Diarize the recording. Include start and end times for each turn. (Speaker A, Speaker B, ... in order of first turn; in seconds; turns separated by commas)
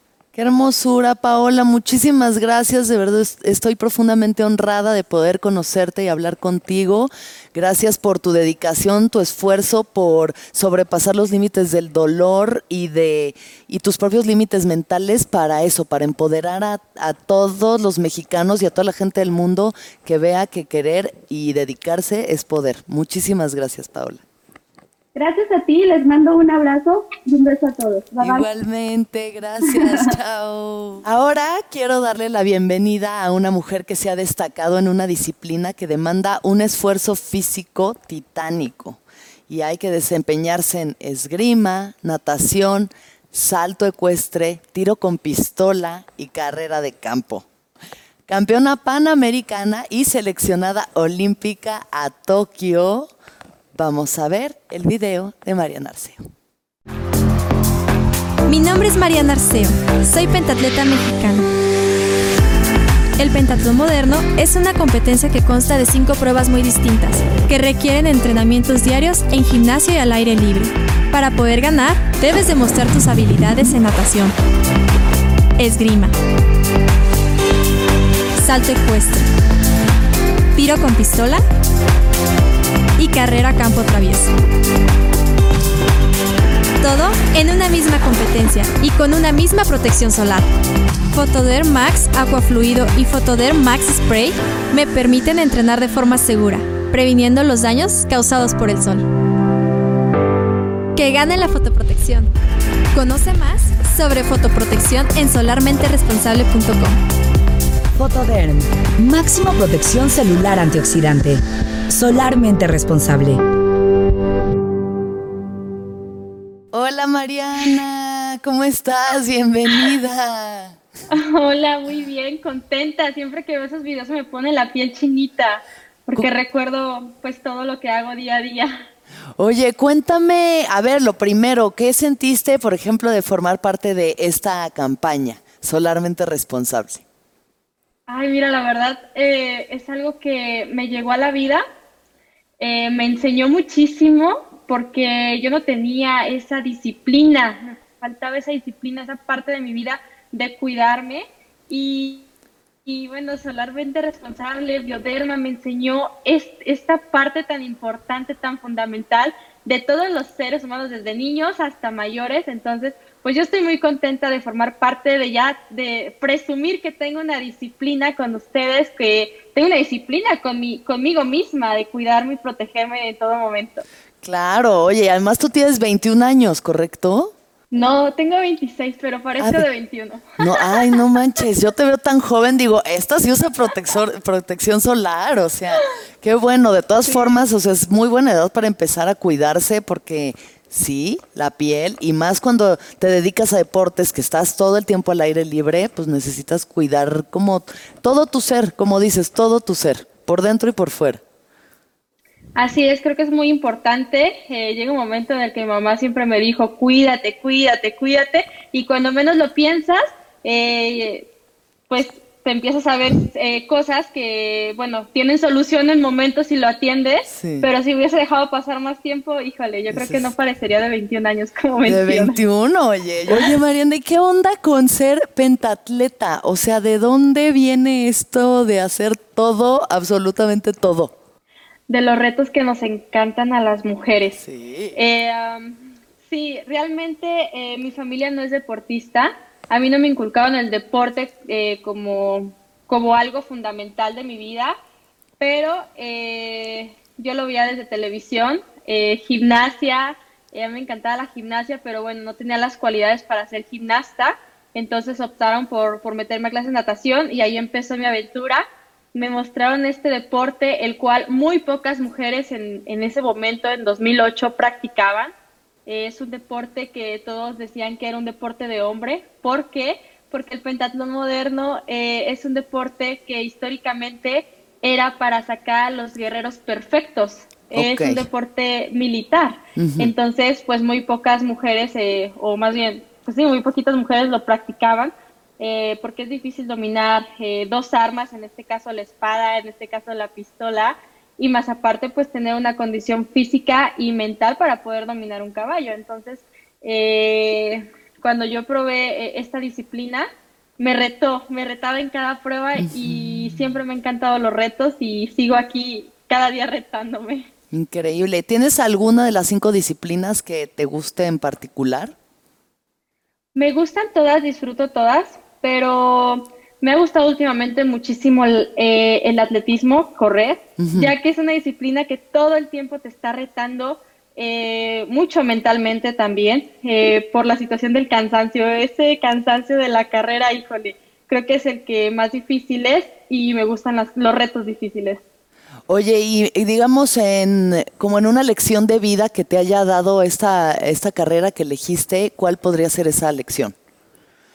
Speaker A: 0.3-24.2, Speaker B: 25.1-28.5, Speaker A: 28.2-47.5, Speaker B: 29.6-30.0, Speaker A: 48.3-53.1, Speaker A: 53.7-56.2, Speaker C: 58.5-61.5, Speaker C: 63.2-74.3, Speaker C: 75.6-76.1, Speaker C: 78.4-79.3, Speaker C: 80.5-81.4, Speaker C: 83.0-84.3, Speaker C: 86.8-90.5, Speaker C: 91.1-99.0, Speaker C: 101.0-102.3, Speaker C: 102.9-107.0, Speaker D: 108.0-113.4, Speaker A: 116.7-120.8, Speaker E: 121.1-128.8, Speaker A: 129.4-137.0, Speaker E: 138.1-141.6, Speaker E: 142.6-152.3, Speaker E: 152.8-173.8, Speaker A: 174.2-177.3, Speaker E: 177.7-181.0, Speaker A: 179.4-179.7, Speaker A: 180.4-201.2, Speaker E: 202.6-211.3, Speaker E: 211.9-222.4, Speaker A: 217.3-217.7, Speaker A: 219.9-220.3, Speaker A: 221.8-231.1, Speaker E: 231.9-234.4, Speaker A: 234.3-235.0, Speaker E: 234.9-244.7, Speaker E: 245.4-265.3, Speaker E: 265.9-300.3, Speaker A: 277.7-278.2, Speaker A: 279.8-280.1, Speaker E: 300.8-307.5, Speaker A: 302.8-303.7, Speaker A: 307.7-312.1, Speaker E: 313.5-335.2, Speaker A: 320.8-321.1, Speaker A: 335.9-343.7